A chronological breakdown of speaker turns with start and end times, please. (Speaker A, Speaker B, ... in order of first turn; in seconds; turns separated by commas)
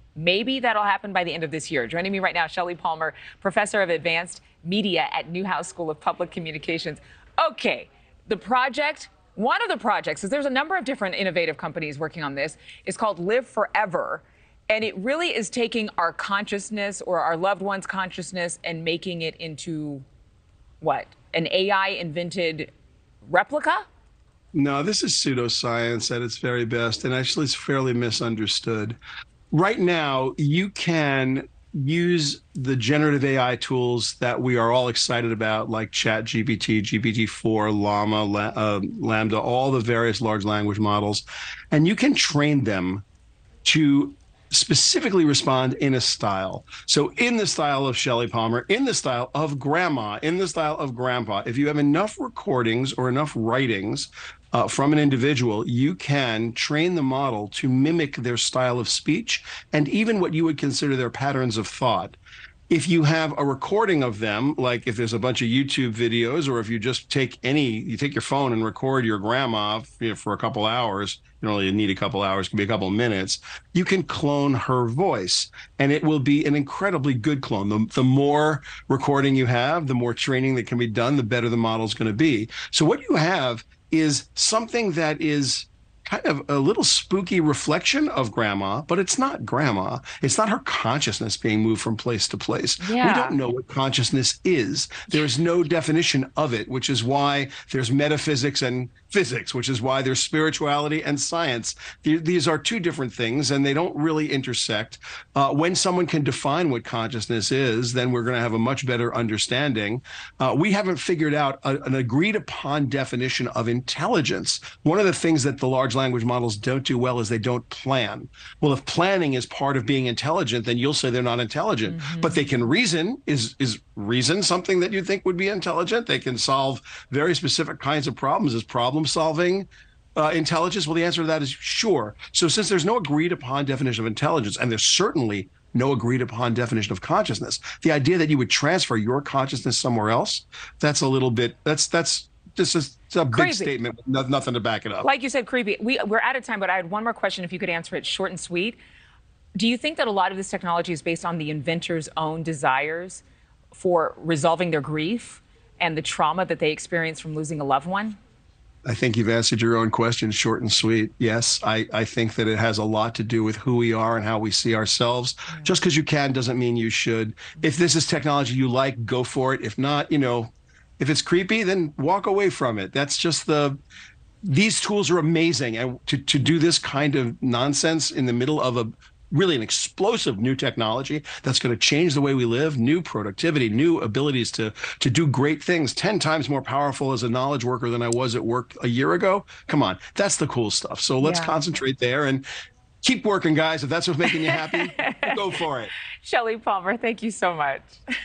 Speaker A: 0.1-20.0, Speaker A: 20.8-22.7, Speaker A: 23.2-23.8, Speaker B: 24.5-29.0, Speaker B: 29.5-43.0, Speaker B: 43.6-62.2, Speaker B: 62.7-145.1, Speaker A: 92.8-93.3, Speaker A: 121.9-122.7, Speaker A: 143.3-143.7, Speaker A: 145.0-148.8, Speaker A: 149.6-158.2, Speaker B: 158.8-173.8, Speaker A: 165.5-165.8, Speaker B: 174.4-192.4, Speaker A: 191.2-191.6, Speaker B: 193.0-195.9, Speaker A: 194.3-198.0